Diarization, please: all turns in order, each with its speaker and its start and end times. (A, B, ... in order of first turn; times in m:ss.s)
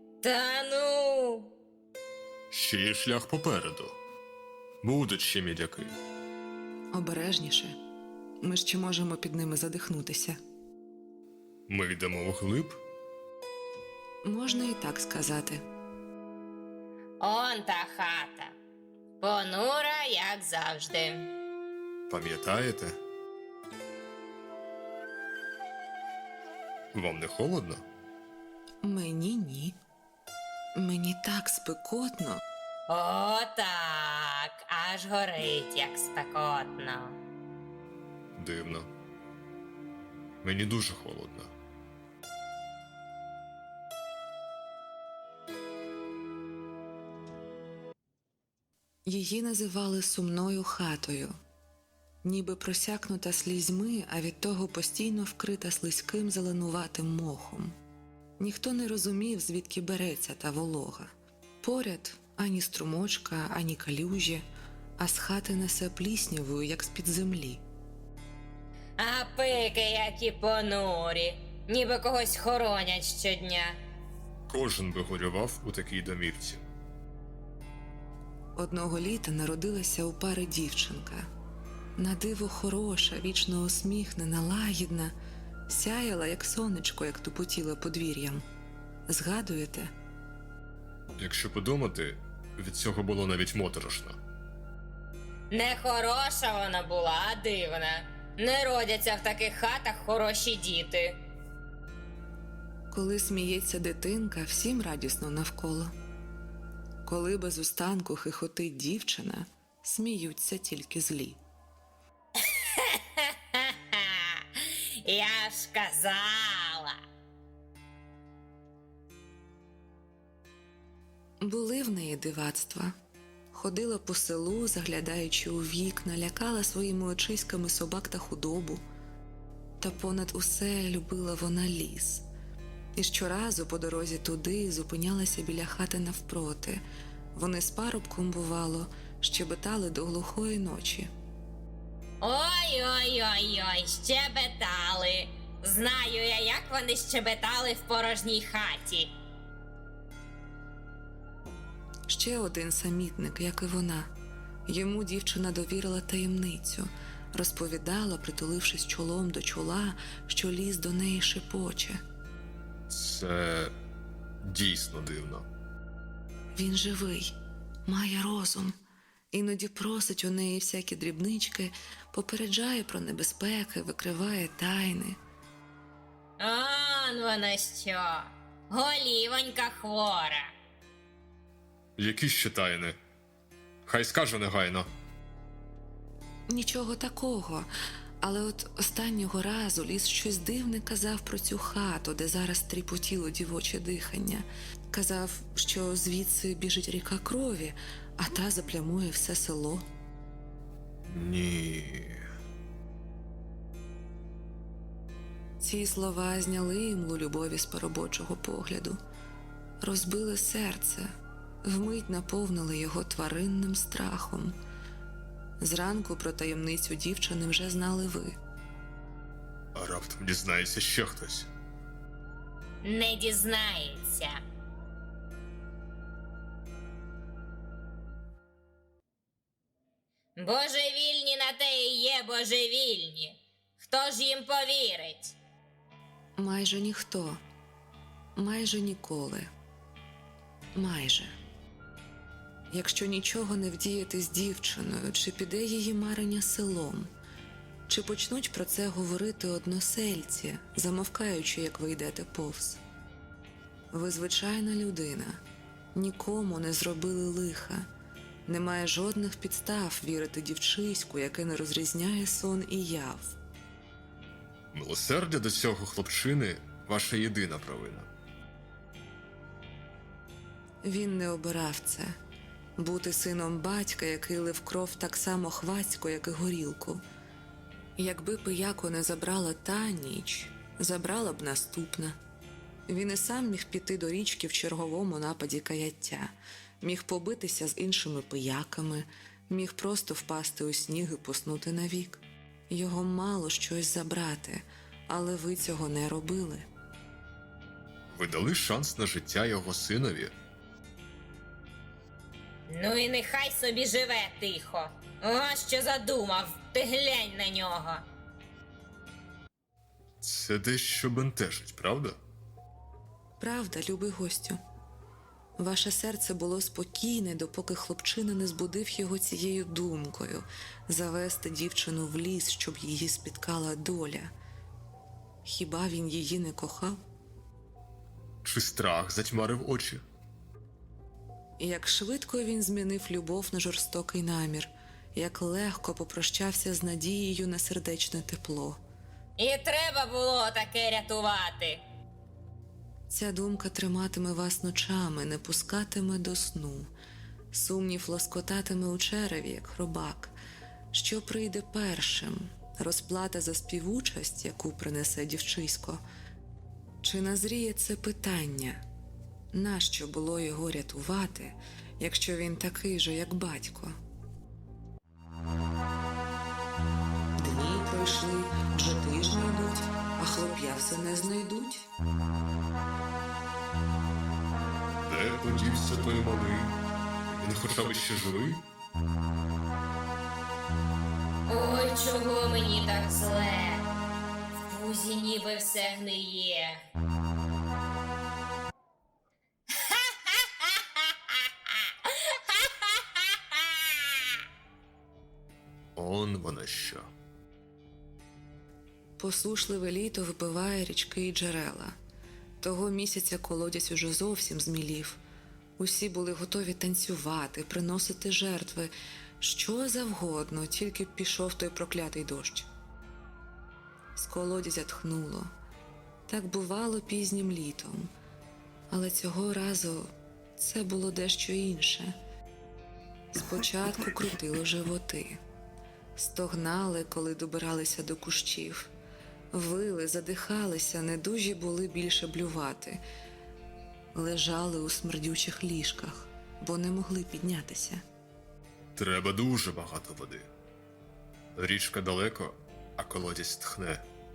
0:00.2-0:01.5 A
0:02.5-0:04.0 B
0:04.8-0:06.0 B
0:06.9-0:07.7 C
0:08.4-0:10.4 C
0:11.7-0:12.8 B
0:14.2-0:15.6 C
0:17.2-0:18.6 A
0:19.2-0:21.3 A
0:22.1-0:23.0 B
0:26.9-0:27.8 B
0:28.8-0:29.8 C
0:30.8-0:32.4 C
0:32.9-0:37.2 A
0:38.3-0:38.9 B
0:40.4-0:41.5 B
0:49.0-0:51.3 C
0:52.2-0:57.7 C
0:58.4-1:01.1 C
1:01.6-1:04.4 C
1:05.0-1:07.6 C
1:09.0-1:13.8 A
1:14.5-1:16.6 B
1:18.6-1:21.2 C
1:22.0-1:25.1 C
1:25.7-1:28.4 C
1:29.1-1:29.9 C
1:31.2-1:34.2 B
1:35.5-1:41.2 A
1:42.9-1:45.9 C
1:47.0-1:51.4 C
1:52.4-1:57.0 A
2:01.4-2:02.9 C
2:03.5-2:08.8 C
2:09.8-2:12.2 C
2:13.0-2:16.8 C
2:17.3-2:21.1 C
2:22.2-2:29.1 A
2:32.1-2:34.1 C
2:34.7-2:42.0 C
2:42.9-2:43.7 B
2:44.4-2:45.5 B
2:46.6-2:47.3 C
2:47.8-2:48.8 C
2:49.3-2:55.2 C
2:56.4-3:00.5 A
3:02.0-3:03.0 B
3:03.8-3:04.9 B
3:06.5-3:07.7 C
3:08.2-3:19.8 C
3:21.0-3:22.2 B
3:25.6-3:29.0 C
3:29.8-3:31.1 C
3:31.6-3:34.6 C
3:35.6-3:38.4 C
3:39.7-3:41.5 B
3:42.8-3:44.4 A
3:50.4-3:55.4 A
3:56.4-3:57.4 C
3:58.4-3:59.5 C
4:00.8-4:01.3 C
4:02.7-4:07.1 C
4:07.9-4:12.8 C
4:13.9-4:15.4 C
4:15.9-4:17.8 C
4:18.5-4:23.4 C
4:24.7-4:28.1 B
4:30.8-4:32.1 C
4:32.8-4:37.0 C
4:38.0-4:42.2 C
4:42.9-4:56.6 C
4:58.1-5:00.3 B
5:02.7-5:08.0 A
5:10.2-5:12.2 B
5:13.4-5:14.6 C
5:15.6-5:24.3 C
5:25.4-5:27.0 C
5:28.4-5:30.0 B
5:31.6-5:38.8 C
5:39.4-5:41.8 A
5:43.1-5:46.9 C
5:47.5-5:50.3 C
5:50.9-5:56.0 C
5:57.0-5:58.8 C
5:59.5-6:03.9 C
6:07.4-6:11.9 C
6:15.0-6:16.8 B
6:17.3-6:18.6 B
6:21.5-6:23.9 A
6:24.6-6:26.8 A
6:29.7-6:34.4 A
6:36.0-6:37.1 B
6:39.2-6:41.9 C
6:42.6-6:45.2 C
6:45.8-6:52.7 C
6:54.2-6:55.5 C
6:56.3-6:58.1 C
6:58.9-7:02.1 C
7:03.3-7:05.4 C
7:06.2-7:08.9 C
7:09.5-7:13.0 C
7:14.1-7:18.0 C
7:19.0-7:20.5 B
7:21.5-7:24.0 B